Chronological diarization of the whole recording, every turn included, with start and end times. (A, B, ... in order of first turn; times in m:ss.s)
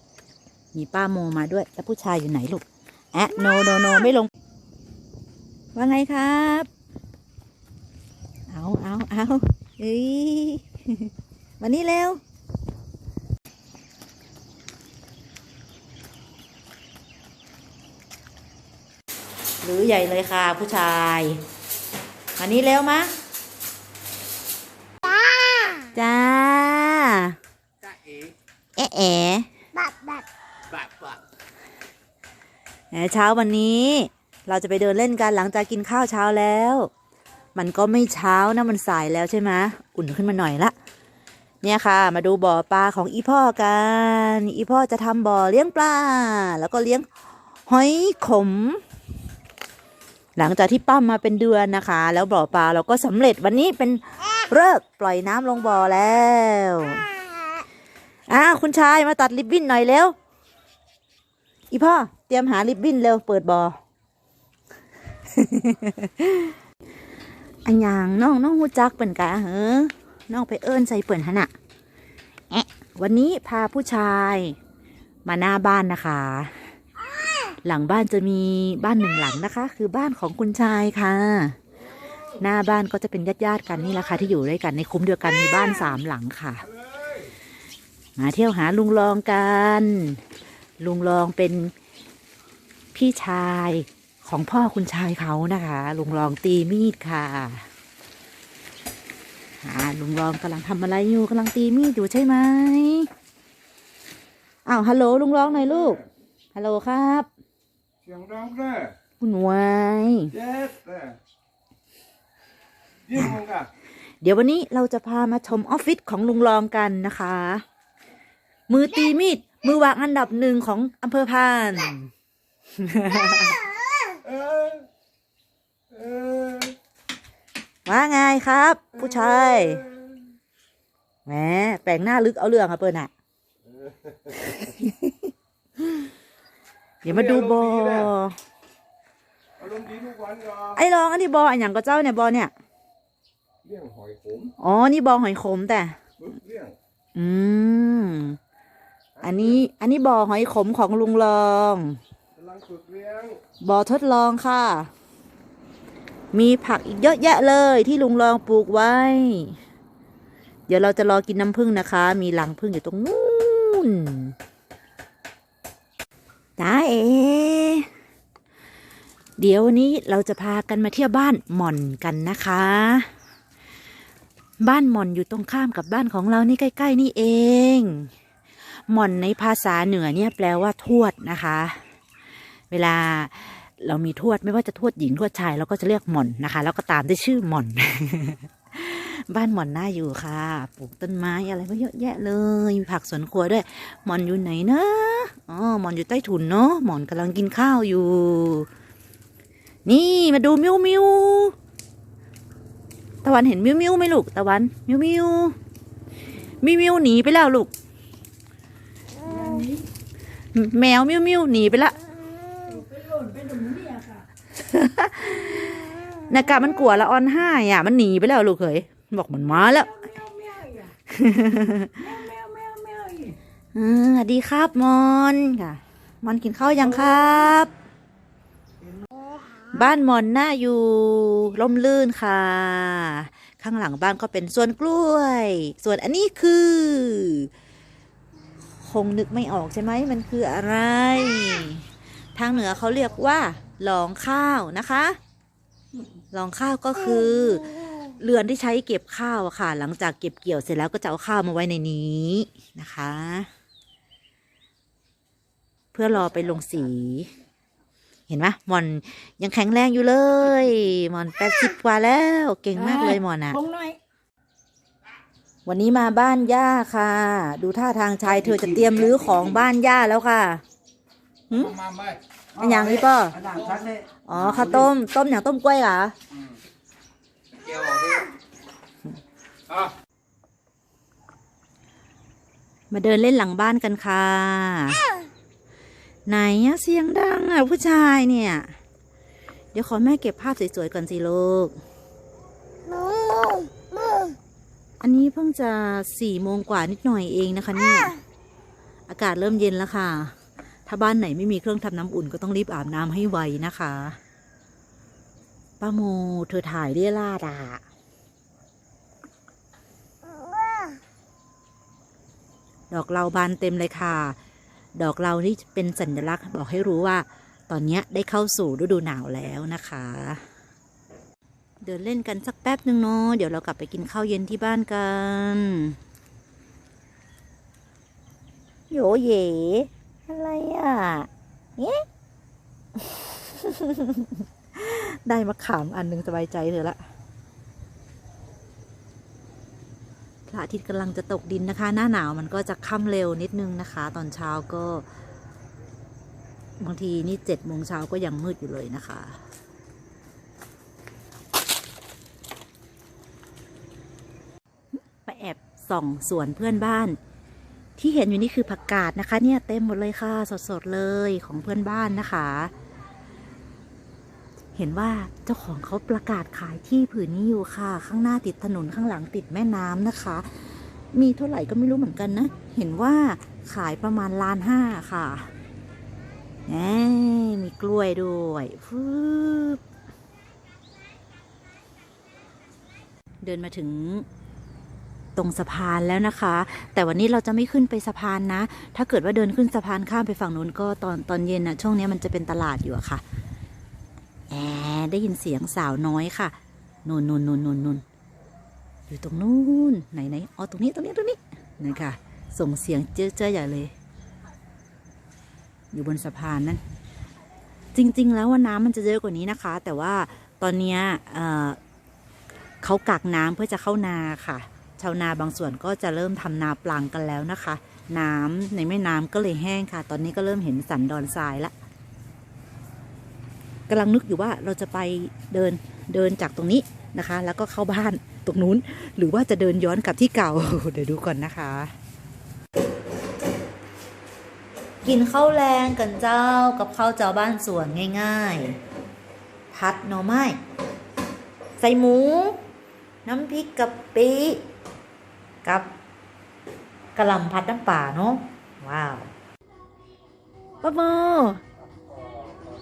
0:00.7-0:04.3 A
0:05.8-0:06.7 A
0:08.5-0:12.2 A
0:19.6-0:21.4 A
0:22.4-0:23.1 A
0:25.9-0:27.4 A
0:28.8-0:29.5 A
0:32.9-0:36.9 A
0:37.6-0:40.8 A
0:41.6-0:47.1 A
0:47.7-0:48.8 A
0:50.4-0:57.0 A
0:58.3-1:00.2 A
1:01.7-1:03.8 A
1:05.3-1:06.5 A
1:07.6-1:11.5 A
1:12.5-1:14.6 A
1:15.2-1:16.6 A
1:17.6-1:21.6 A
1:22.4-1:26.7 A
1:28.2-1:30.2 A
1:30.8-1:31.7 A
1:32.9-1:37.7 A
1:39.6-1:43.1 A
1:44.7-1:46.0 A
1:46.6-1:47.3 A
1:48.1-1:48.9 B
1:49.2-1:50.4 A
1:50.4-1:51.2 B
1:53.1-1:53.4 A
1:53.4-1:53.7 B
1:54.2-1:57.6 A
1:58.7-2:02.1 A
2:02.8-2:03.6 A
2:06.0-2:06.7 B
2:07.9-2:09.9 A
2:11.3-2:13.1 A
2:14.4-2:15.2 A
2:17.0-2:18.4 A
2:19.6-2:20.7 B
2:20.7-2:22.5 A
2:23.6-2:24.5 B
2:24.6-2:26.0 A
2:26.3-2:26.7 B
2:27.2-2:28.4 A
2:29.2-2:32.0 A
2:32.4-2:33.4 B
2:33.6-2:34.9 A
2:36.3-2:39.6 A
2:40.7-2:44.3 A
2:46.6-2:47.9 A
2:49.4-2:53.1 A
2:54.6-2:58.1 A
2:58.9-3:01.8 A
3:02.7-3:18.7 A
3:19.9-3:21.6 A
3:23.2-3:25.6 A
3:26.6-3:27.7 A
3:29.2-3:29.9 C
3:30.5-3:32.0 A
3:32.7-3:34.3 C
3:34.6-3:40.2 A
3:39.7-3:40.9 C
3:41.1-3:42.1 A
3:42.0-3:43.4 C
3:43.8-3:47.7 A
3:49.7-3:57.5 A
3:58.8-4:05.2 A
4:06.3-4:13.5 A
4:15.9-4:17.3 A
4:18.3-4:23.6 A
4:22.8-4:24.0 C
4:25.7-4:30.6 A
4:31.5-4:31.9 A
4:32.6-4:36.1 A
4:42.9-4:45.0 A
4:46.3-4:48.7 A
4:49.7-4:51.8 A
4:55.0-4:58.2 A
4:59.1-5:00.3 A
5:00.9-5:04.2 A
5:05.8-5:07.8 A
5:12.9-5:14.4 A
5:15.0-5:20.4 A
5:21.8-5:26.0 A
5:28.9-5:32.0 A
5:33.0-5:37.0 A
5:40.5-5:45.0 A
5:46.8-5:49.4 A
5:55.0-5:57.2 A
5:58.0-6:02.7 A
6:04.8-6:10.5 A
6:11.1-6:15.5 A
6:16.7-6:19.8 A
6:23.4-6:24.3 A
6:25.4-6:33.2 A
6:34.5-6:38.0 A
6:39.1-6:43.9 A
6:45.9-6:46.8 A
6:48.0-6:51.8 A
6:52.8-7:01.7 A
7:03.9-7:11.9 A
7:15.0-7:18.8 A
7:19.7-7:20.6 A
7:21.8-7:22.6 A
7:23.2-7:24.6 A
7:25.6-7:25.9 A
7:27.2-7:29.3 A
7:30.8-7:31.6 A